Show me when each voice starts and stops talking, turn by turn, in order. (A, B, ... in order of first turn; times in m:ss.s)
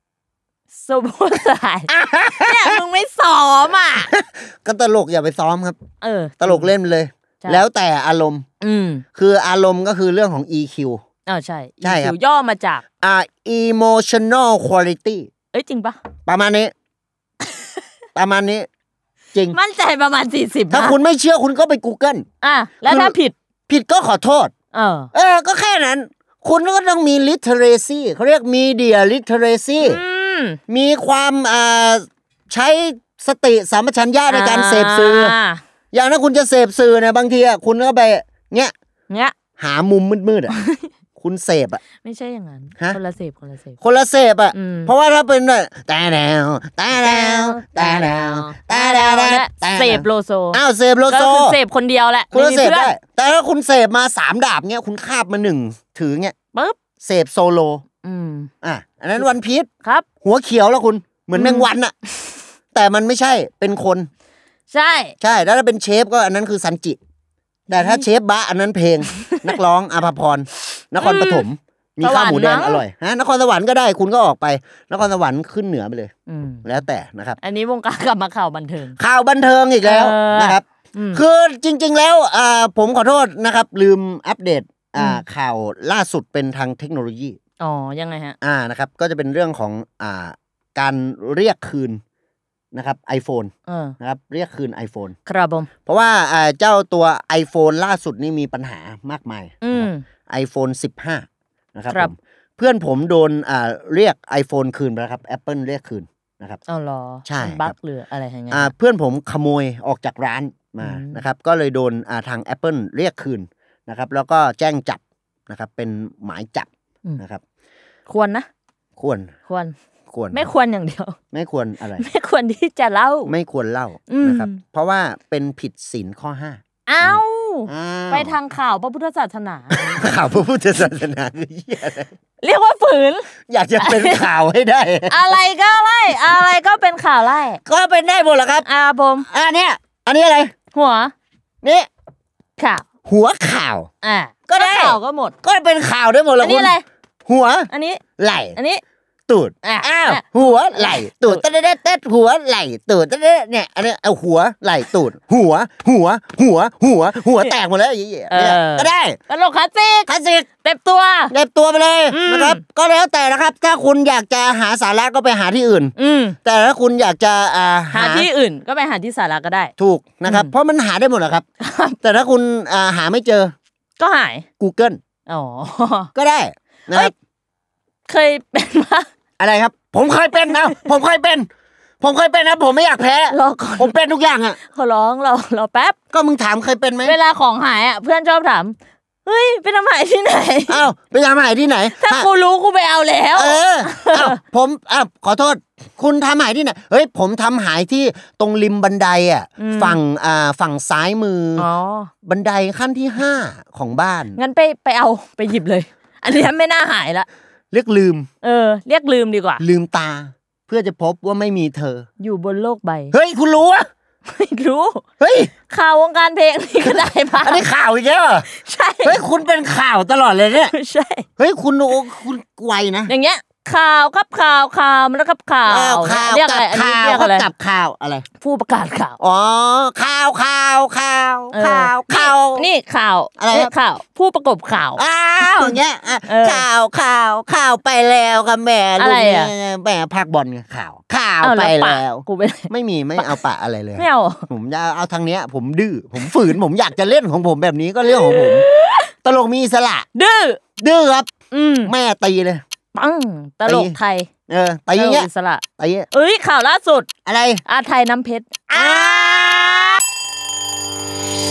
0:00.8-0:04.1 A
0:01.9-0:02.8 B
0:04.1-0:05.8 B
0:06.0-0:06.7 A
0:06.4-0:08.4 B
0:08.6-0:09.0 A
0:09.1-0:11.0 B
0:11.2-0:12.8 A
0:11.8-0:12.2 B
0:13.0-0:15.3 B
0:15.5-0:16.0 A
0:16.2-0:16.7 B
0:17.4-0:17.7 A
0:18.2-0:18.7 B
0:19.5-0:21.0 A
0:20.7-0:22.2 B
0:22.4-0:23.3 A
0:22.8-0:23.2 B
0:23.7-0:24.5 B
0:24.7-0:25.1 A
0:25.1-0:30.0 B
0:29.8-0:30.6 A
0:30.7-0:35.4 B
0:34.3-0:35.6 A
0:35.9-0:38.7 B
0:39.1-0:39.4 A
0:39.6-0:40.5 B
0:40.5-0:40.9 A
0:41.2-0:41.8 B
0:42.0-0:43.8 A
0:43.8-0:51.6 B
0:44.5-0:44.9 A
0:46.9-0:52.9 A
0:52.3-0:56.3 B
0:56.5-0:56.8 A
0:57.0-0:57.8 B
0:58.0-0:58.5 A
0:58.6-0:59.7 B
1:00.2-1:01.9 B
1:01.3-1:01.7 A
1:02.7-1:04.1 B
1:04.7-1:05.1 A
1:05.2-1:07.0 B
1:07.7-1:16.1 B
1:07.7-1:08.0 A
1:09.1-1:09.5 A
1:11.0-1:11.4 A
1:12.0-1:12.8 A
1:16.3-1:16.6 A
1:16.6-1:17.4 B
1:17.4-1:19.0 A
1:19.0-1:27.4 B
1:19.8-1:21.2 A
1:25.0-1:25.2 A
1:27.6-1:28.4 A
1:28.4-1:32.0 B
1:32.7-1:35.1 B
1:33.7-1:33.9 A
1:35.2-1:35.7 A
1:35.9-1:46.6 B
1:39.6-1:40.0 A
1:46.7-1:48.7 A
1:47.2-1:47.7 B
1:48.5-1:57.4 B
1:50.8-1:51.2 A
1:58.1-1:58.5 A
1:59.0-1:59.3 B
1:59.5-1:59.7 A
2:00.1-2:00.5 B
2:00.3-2:01.2 A
2:01.3-2:02.0 B
2:02.0-2:03.3 A
2:03.3-2:08.4 B
2:04.1-2:04.6 A
2:06.9-2:10.0 A
2:09.7-2:12.1 B
2:12.4-2:14.3 A
2:13.5-2:15.2 B
2:15.1-2:17.6 A
2:17.6-2:18.6 B
2:18.6-2:19.3 A
2:19.3-2:20.5 B
2:20.7-2:21.1 A
2:21.6-2:21.9 B
2:22.6-2:22.9 A
2:23.0-2:23.9 B
2:24.0-2:25.4 A
2:24.5-2:28.6 B
2:26.4-2:26.8 A
2:27.7-2:28.0 A
2:28.5-2:28.8 A
2:29.3-2:39.2 B
2:29.6-2:31.4 A
2:38.3-2:40.1 A
2:40.1-2:40.5 B
2:40.6-2:41.3 A
2:41.3-2:45.9 B
2:42.1-2:42.6 A
2:46.0-2:46.4 A
2:46.4-2:48.3 B
2:47.9-2:49.7 A
2:49.8-2:51.4 B
2:50.2-2:50.5 A
2:51.6-2:52.0 A
2:52.0-2:53.5 B
2:54.0-2:54.4 A
2:54.6-2:55.0 B
2:55.3-2:56.1 A
2:56.1-2:57.1 B
2:58.1-2:59.1 A
2:59.4-3:01.5 B
3:00.5-3:00.9 A
3:02.0-3:04.6 B
3:03.3-3:03.9 A
3:04.6-3:06.0 A
3:06.1-3:07.2 B
3:07.0-3:10.9 A
3:10.7-3:12.3 B
3:12.0-3:14.4 A
3:13.3-3:21.7 B
3:19.6-3:20.0 A
3:21.6-3:22.1 A
3:22.2-3:24.4 B
3:24.3-3:27.3 A
3:27.7-3:28.3 B
3:28.4-3:29.6 A
3:29.6-3:32.0 B
3:32.2-3:33.1 A
3:33.1-3:33.8 B
3:34.3-3:35.0 A
3:35.2-3:35.5 B
3:35.7-3:37.7 A
3:36.8-3:38.5 B
3:38.5-3:39.2 A
3:39.0-3:40.7 B
3:40.6-3:41.2 A
3:41.4-3:43.1 B
3:43.1-3:47.5 A
3:45.6-3:48.2 B
3:48.4-3:49.2 A
3:49.2-3:52.7 B
3:51.5-3:56.6 A
3:53.4-3:53.7 B
3:55.0-4:08.7 B
3:59.0-3:59.5 A
4:01.4-4:03.4 A
4:04.0-4:04.5 A
4:08.0-4:09.1 A
4:09.2-4:10.1 B
4:10.1-4:10.6 A
4:10.8-4:11.3 B
4:11.5-4:11.9 A
4:11.8-4:12.6 B
4:12.9-4:14.3 A
4:13.6-4:14.0 B
4:14.5-4:16.1 B
4:14.9-4:17.1 A
4:17.2-4:17.6 B
4:17.6-4:20.0 A
4:18.7-4:19.9 B